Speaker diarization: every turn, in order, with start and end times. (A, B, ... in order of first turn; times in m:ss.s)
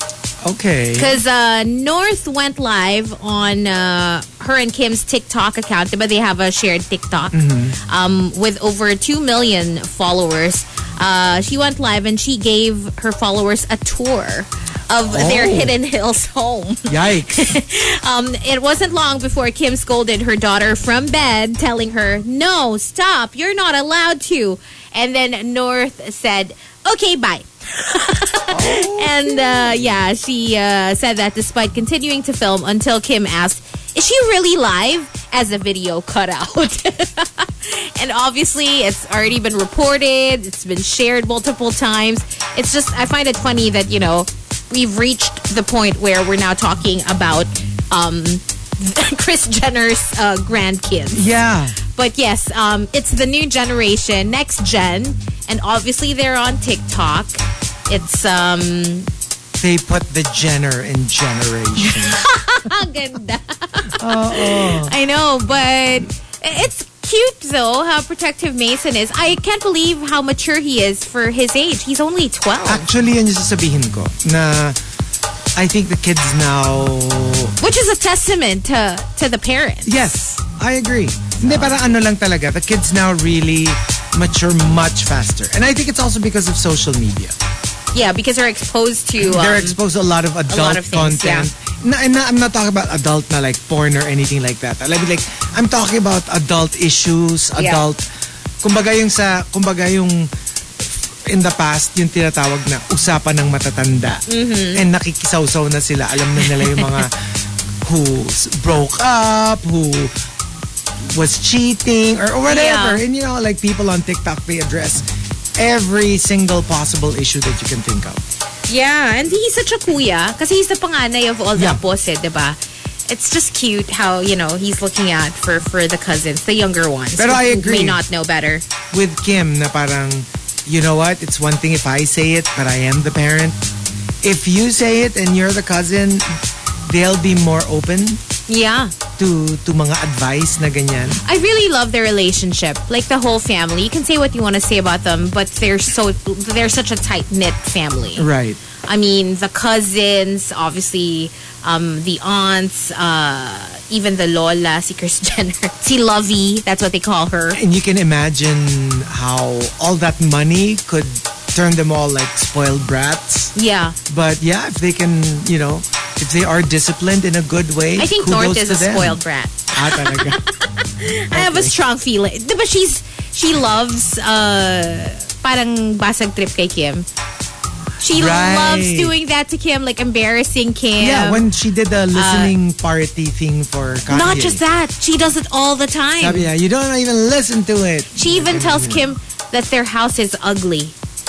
0:00.4-0:01.2 A
0:01.0-0:59.1 B
0:07.3-0:07.8 A
0:15.1-0:15.7 A
0:16.9-0:17.6 A
0:28.5-0:29.9 A
0:51.1-0:51.8 A
0:59.6-1:02.2 A
1:01.8-1:12.9 B
1:04.0-1:04.9 A
1:12.6-1:14.8 A
1:15.6-1:17.5 A
1:17.6-1:20.1 B
1:19.8-1:27.4 A
1:21.4-1:21.8 B
1:27.9-1:29.8 B
1:29.2-1:38.0 A
1:30.5-1:31.5 B
1:37.6-1:37.8 B
1:38.6-1:40.3 A
1:40.8-1:44.2 A
1:44.3-1:44.8 B
1:44.7-1:47.2 A
1:46.5-1:46.8 B
1:47.8-1:50.1 A
1:51.0-1:55.1 A
1:52.5-1:53.0 B
1:55.6-1:58.2 A
1:58.7-2:08.6 B
2:07.2-2:08.0 A
2:08.9-2:13.6 A
2:14.2-2:16.3 A
2:16.9-2:18.2 A
2:18.5-2:18.9 B
2:19.2-2:21.2 A
2:21.2-2:28.3 B
2:28.2-2:28.6 A
2:28.9-2:37.6 B
2:37.5-2:43.5 A
2:43.6-2:44.0 B
2:44.1-2:49.2 A
2:48.0-2:57.1 B
2:49.7-2:50.4 A
2:51.3-2:51.8 A
2:58.0-3:01.4 B
2:58.1-2:59.2 A
3:01.0-3:04.6 A
3:02.1-3:02.5 B
3:04.1-3:06.5 B
3:06.2-3:09.1 A
3:08.2-3:10.9 B